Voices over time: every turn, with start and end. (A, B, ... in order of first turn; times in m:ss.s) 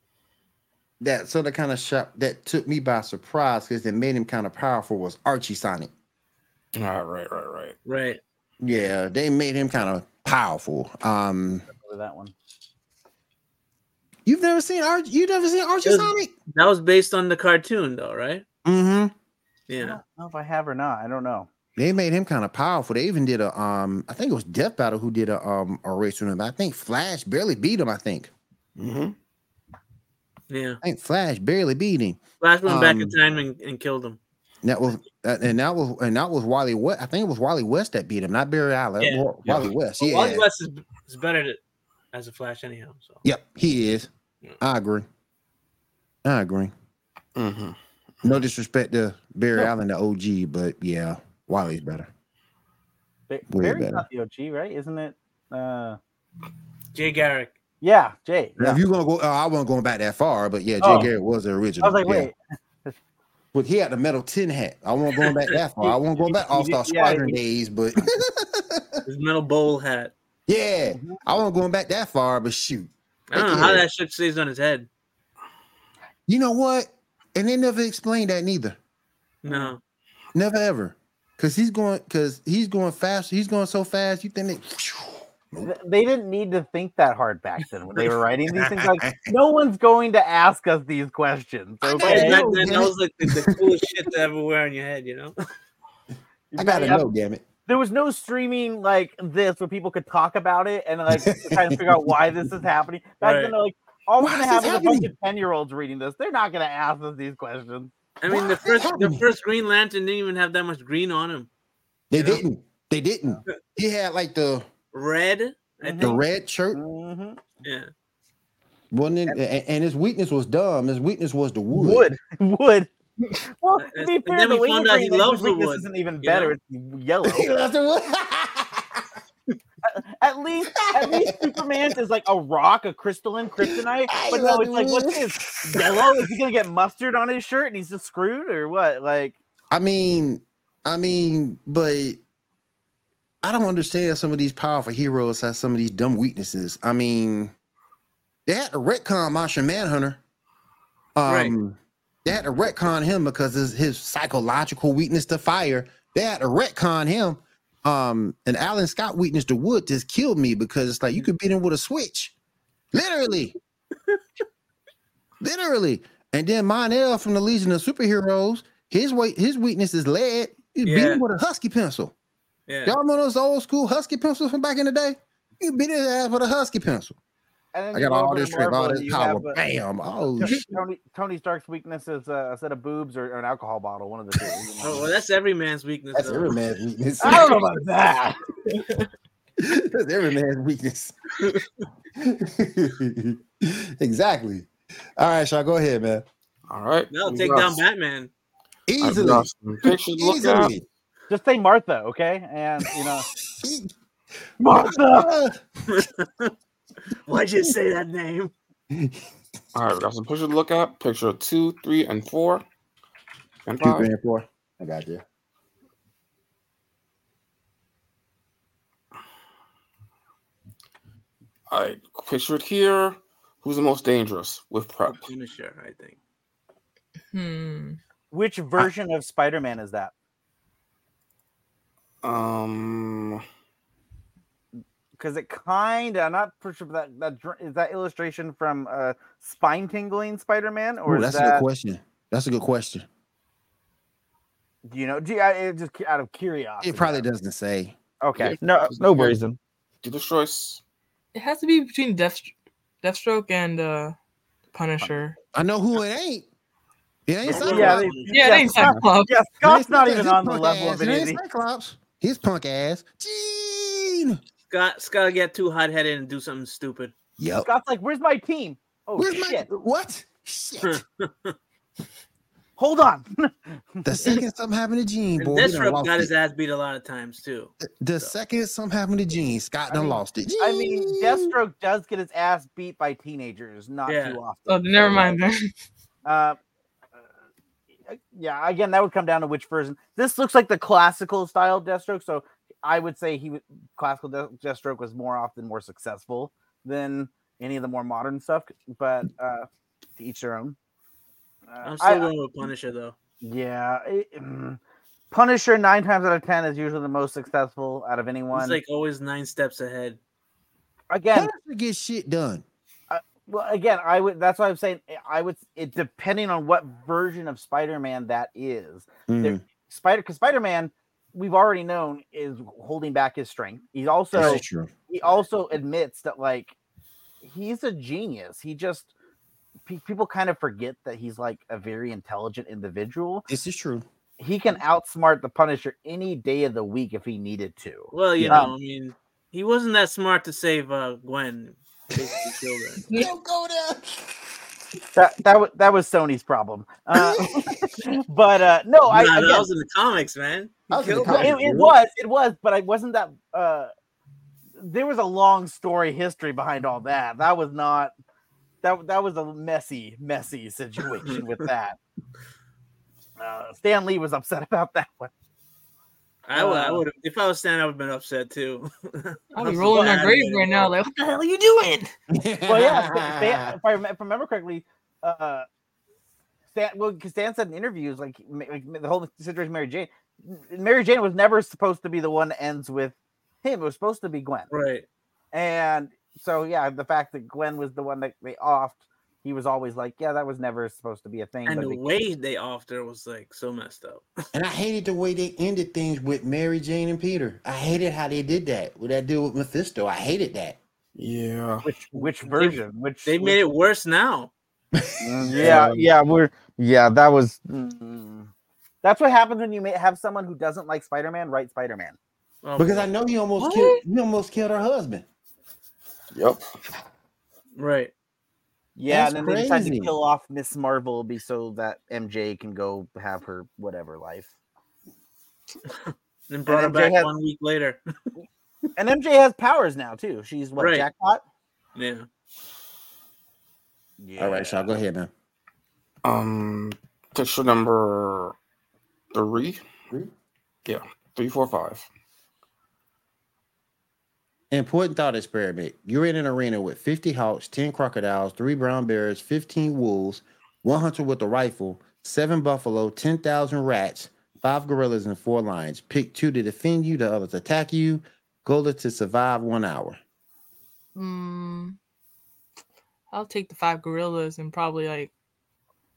0:01.0-0:05.9 A
0:06.7-0:07.8 B
0:07.8-0:08.2 C
0:08.6-0:11.6 A
0:11.7-0:12.3 D
0:14.2-0:16.3 A
0:15.8-0:18.4 C
0:18.6-0:19.1 A
0:19.7-0:20.0 C
0:19.8-0:21.5 D
0:21.8-0:28.3 A
0:28.8-0:29.1 B
0:30.5-0:30.8 C
0:30.8-0:33.2 A
0:32.4-0:34.2 C
0:34.6-0:40.4 A
0:39.0-0:39.3 C
0:39.4-0:39.7 B
0:40.0-0:41.6 C
0:42.1-0:43.2 C
0:43.2-0:45.0 A
0:46.2-0:46.7 A
0:47.4-0:48.3 B
0:48.2-0:52.1 A
0:53.3-0:56.0 D
0:53.5-0:54.0 A
0:56.9-0:57.5 C
0:57.8-0:58.8 D
0:58.6-1:02.3 A
1:00.8-1:01.1 D
1:01.8-1:03.0 D
1:03.5-1:09.0 A
1:05.8-1:07.4 D
1:09.0-1:10.1 C
1:10.5-1:13.9 A
1:10.8-1:11.2 D
1:13.3-1:14.9 C
1:16.3-1:18.8 A
1:19.4-1:19.8 C
1:19.5-1:19.7 D
1:20.3-1:25.7 A
1:25.6-1:32.4 D
1:28.5-1:29.3 A
1:31.8-1:33.6 A
1:32.0-1:35.3 C
1:36.5-1:37.0 D
1:36.6-1:37.4 A
1:37.6-1:47.9 D
1:41.1-1:42.1 A
1:43.2-1:43.5 C
1:44.2-1:45.1 A
1:48.2-1:51.5 C
1:48.3-1:49.2 A
1:52.1-1:54.7 A
1:52.1-1:52.4 C
1:54.9-1:56.2 C
1:55.8-1:56.2 D
1:56.0-1:56.8 A
1:56.7-1:57.4 D
1:57.6-1:57.9 C
1:58.9-2:02.1 A
2:01.7-2:07.5 D
2:03.8-2:06.5 C
2:07.2-2:09.0 A
2:09.9-2:19.4 D
2:10.8-2:11.6 A
2:14.1-2:16.1 A
2:19.7-2:22.2 A
2:23.4-2:27.5 A
2:28.4-2:30.2 A
2:31.2-2:42.3 A
2:31.2-2:31.5 C
2:42.9-2:43.5 A
2:45.4-2:52.1 A
2:50.8-2:51.2 C
2:52.7-2:53.0 C
2:52.8-2:57.1 A
2:57.7-2:59.6 D
2:57.9-3:00.6 A
3:00.4-3:05.0 D
3:04.8-3:06.6 C
3:06.1-3:07.6 A
3:07.2-3:08.4 D
3:09.6-3:11.5 A
3:11.4-3:11.7 C
3:12.2-3:16.2 A
3:16.7-3:17.8 B
3:17.1-3:18.3 C
3:18.9-3:20.8 A
3:19.0-3:20.7 B
3:21.3-3:23.3 D
3:23.5-3:23.9 A
3:24.6-3:25.3 D
3:24.6-3:25.6 A
3:25.9-3:26.5 C
3:27.3-3:28.5 C
3:28.9-3:29.2 A
3:29.7-3:32.6 B
3:33.6-3:34.1 B
3:33.8-3:35.2 A
3:41.7-3:45.2 B
3:45.0-3:46.2 C
3:47.3-3:48.0 E
3:48.3-3:50.1 D
3:52.2-3:53.4 B
3:55.2-4:01.6 D
4:01.0-4:03.1 A
4:04.9-4:07.2 D
4:06.8-4:08.0 A
4:08.2-4:09.6 D
4:08.4-4:09.4 B
4:10.0-4:10.8 B
4:11.3-4:14.2 E
4:14.7-4:15.4 E
4:15.5-4:16.5 A
4:17.3-4:18.1 A
4:17.4-4:18.6 C
4:17.5-4:21.4 D
4:18.3-4:19.3 E
4:18.7-4:19.0 B
4:19.6-4:24.4 A
4:24.7-4:27.1 C
4:27.4-4:27.7 A
4:27.6-4:29.7 D
4:29.2-4:31.0 A
4:30.8-4:31.5 C
4:32.8-4:34.4 D
4:34.0-4:36.3 A
4:35.4-4:38.3 C
4:37.8-4:41.5 A
4:39.9-4:45.4 D
4:44.0-4:44.4 C
4:44.7-4:45.7 E
4:46.2-4:46.6 D
4:48.1-4:59.7 D
5:00.2-5:00.8 D
5:01.7-5:02.3 D
5:01.8-5:03.1 C
5:03.4-5:04.8 D
5:05.3-5:08.8 D
5:08.5-5:10.2 C
5:11.1-5:11.5 D
5:11.3-5:12.6 A
5:13.1-5:26.7 D
5:19.3-5:19.6 A
5:24.3-5:24.9 A
5:27.4-5:29.1 D
5:29.9-5:33.5 D
5:33.5-5:34.0 A
5:34.4-5:38.7 D
5:38.1-5:43.0 C
5:38.4-5:38.7 A
5:42.1-5:42.4 A
5:43.1-5:44.4 A
5:45.1-5:49.7 D
5:47.1-5:47.9 A
5:49.1-5:51.6 C
5:50.9-5:51.9 A
5:51.2-5:53.9 D
5:54.8-5:58.1 D
5:58.8-6:02.0 D
6:03.4-6:05.3 D
6:06.4-6:10.9 C
6:06.5-6:07.0 D
6:09.5-6:12.1 E
6:09.9-6:10.3 D
6:12.3-6:13.8 A
6:12.6-6:15.6 D
6:16.7-6:24.7 D
6:24.7-6:25.0 C
6:25.5-6:32.1 D
6:31.7-6:34.2 C
6:34.5-6:40.8 A
6:41.2-6:41.9 B
6:41.8-6:43.6 D
6:42.1-6:44.5 C
6:44.9-6:45.8 A
6:45.2-6:48.5 D
6:45.5-6:46.1 B
6:49.0-6:52.2 D
6:52.6-6:53.1 C
6:52.8-6:55.2 A
6:53.6-6:54.0 E
6:56.3-6:56.6 B
6:57.8-6:58.1 C
6:59.0-7:04.5 D
6:59.1-7:00.1 A
7:06.5-7:08.0 C
7:06.7-7:07.3 D
7:09.0-7:11.4 D
7:10.8-7:11.1 C
7:11.9-7:12.3 C
7:14.2-7:14.9 D
7:14.4-7:15.3 A
7:16.2-7:18.5 B
7:19.3-7:19.8 B
7:20.8-7:22.1 B
7:24.7-7:40.2 A
7:41.1-7:42.0 E
7:43.3-7:45.3 E